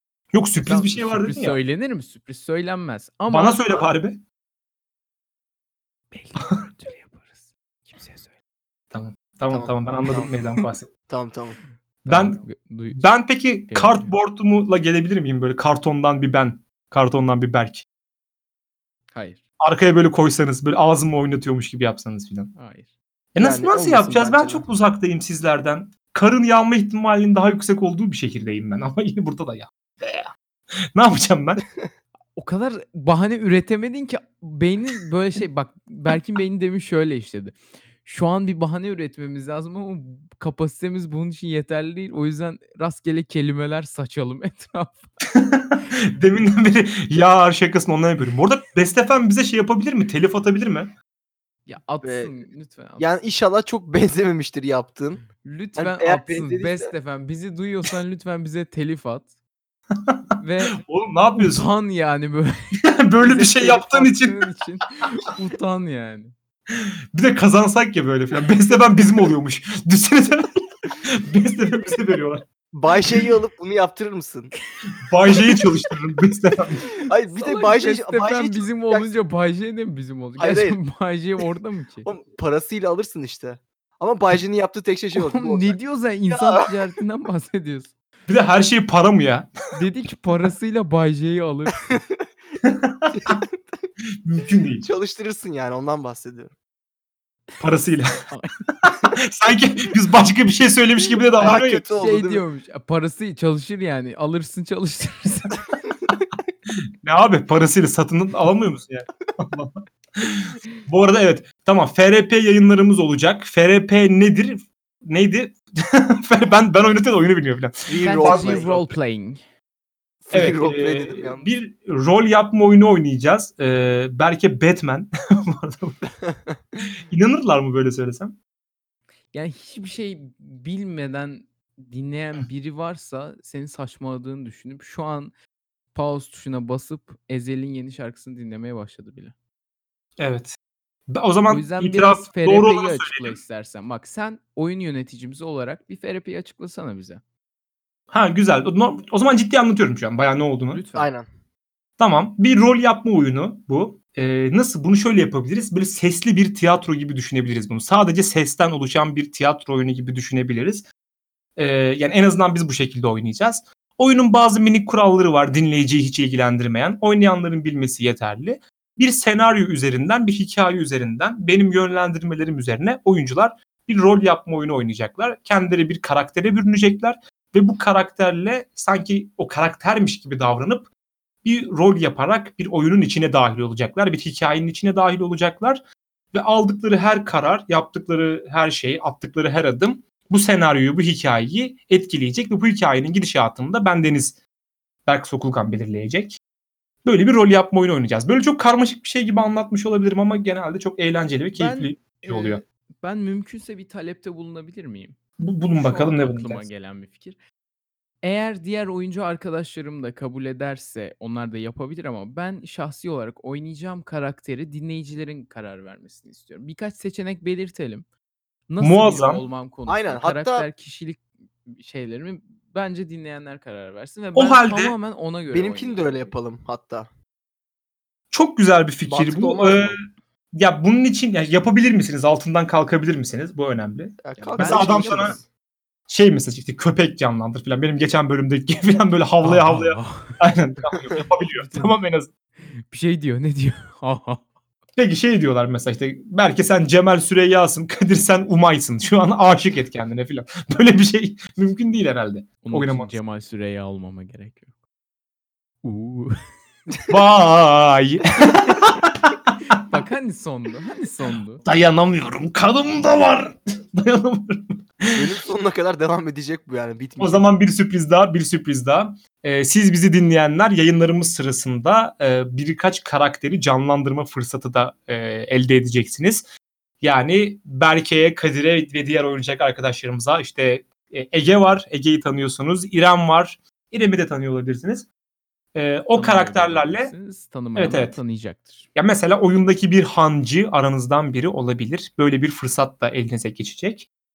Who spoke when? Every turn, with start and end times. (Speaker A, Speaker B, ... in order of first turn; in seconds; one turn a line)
Speaker A: 0.3-1.6
Speaker B: 0.6-3.8
Speaker A: 3.3-4.2
Speaker B: 6.1-8.3
Speaker A: 8.9-10.9
Speaker C: 9.5-10.3
Speaker C: 11.1-11.6
Speaker A: 12.1-17.9
Speaker B: 12.1-13.1
Speaker B: 13.7-14.2
Speaker B: 19.1-19.4
Speaker A: 19.6-22.5
Speaker B: 22.5-22.9
Speaker A: 23.3-30.3
Speaker C: 23.4-24.6
Speaker A: 30.9-31.6
Speaker B: 32.4-45.1
Speaker A: 45.3-50.9
Speaker B: 51.7-53.2
Speaker C: 52.0-52.4
Speaker C: 53.0-55.2
Speaker B: 55.3-59.3
Speaker C: 55.8-56.9
Speaker A: 59.9-60.2
Speaker B: 60.4-60.8
Speaker A: 60.8-61.7
Speaker B: 61.4-62.7
Speaker A: 62.8-64.5
Speaker C: 63.4-63.7
Speaker B: 63.4-66.3
Speaker A: 66.7-72.4
Speaker C: 72.7-74.5
Speaker A: 75.0-76.9
Speaker C: 77.0-79.1
Speaker B: 77.3-82.1
Speaker C: 80.4-80.8
Speaker C: 82.0-85.8
Speaker B: 85.1-87.9
Speaker C: 86.3-86.7
Speaker A: 88.3-89.5
Speaker B: 89.7-92.0
Speaker C: 91.9-92.2
Speaker A: 92.6-93.4
Speaker C: 93.2-93.5
Speaker A: 94.2-94.9
Speaker C: 94.8-96.5
Speaker A: 97.6-98.1
Speaker B: 98.3-98.7
Speaker A: 98.8-101.8
Speaker C: 101.4-102.4
Speaker B: 101.9-105.6
Speaker A: 107.0-118.9
Speaker C: 117.9-118.7
Speaker B: 118.0-119.4
Speaker C: 120.2-121.5
Speaker A: 120.3-126.0
Speaker A: 127.1-128.3
Speaker B: 129.3-135.3
Speaker B: 135.9-139.3
Speaker A: 140.2-140.6
Speaker A: 141.1-143.4
Speaker B: 141.5-147.2
Speaker A: 148.1-150.8
Speaker B: 150.7-151.1
Speaker C: 150.9-151.3
Speaker A: 152.0-160.8
Speaker A: 161.6-180.9
Speaker A: 181.4-185.8
Speaker A: 186.3-194.4
Speaker A: 195.1-196.4
Speaker A: 197.0-202.6
Speaker B: 201.5-205.2
Speaker A: 205.4-206.7
Speaker B: 205.7-207.4
Speaker B: 208.2-218.1
Speaker B: 218.7-226.3
Speaker A: 218.8-219.4
Speaker C: 219.9-220.7
Speaker A: 224.3-224.9
Speaker C: 225.5-227.1
Speaker A: 228.3-230.0
Speaker C: 229.1-230.0
Speaker A: 230.5-235.4
Speaker C: 234.2-235.4
Speaker B: 234.4-235.4
Speaker A: 236.1-242.3
Speaker B: 239.4-240.3
Speaker B: 241.5-242.0
Speaker B: 242.8-244.5
Speaker A: 244.9-253.2
Speaker B: 252.6-254.7
Speaker B: 255.8-256.3
Speaker A: 257.1-259.8
Speaker B: 259.9-261.6
Speaker A: 261.6-265.4
Speaker C: 265.1-267.4
Speaker A: 267.2-276.4
Speaker A: 277.0-285.1
Speaker A: 285.7-287.1
Speaker B: 286.1-288.9
Speaker A: 287.8-288.2
Speaker A: 288.9-294.1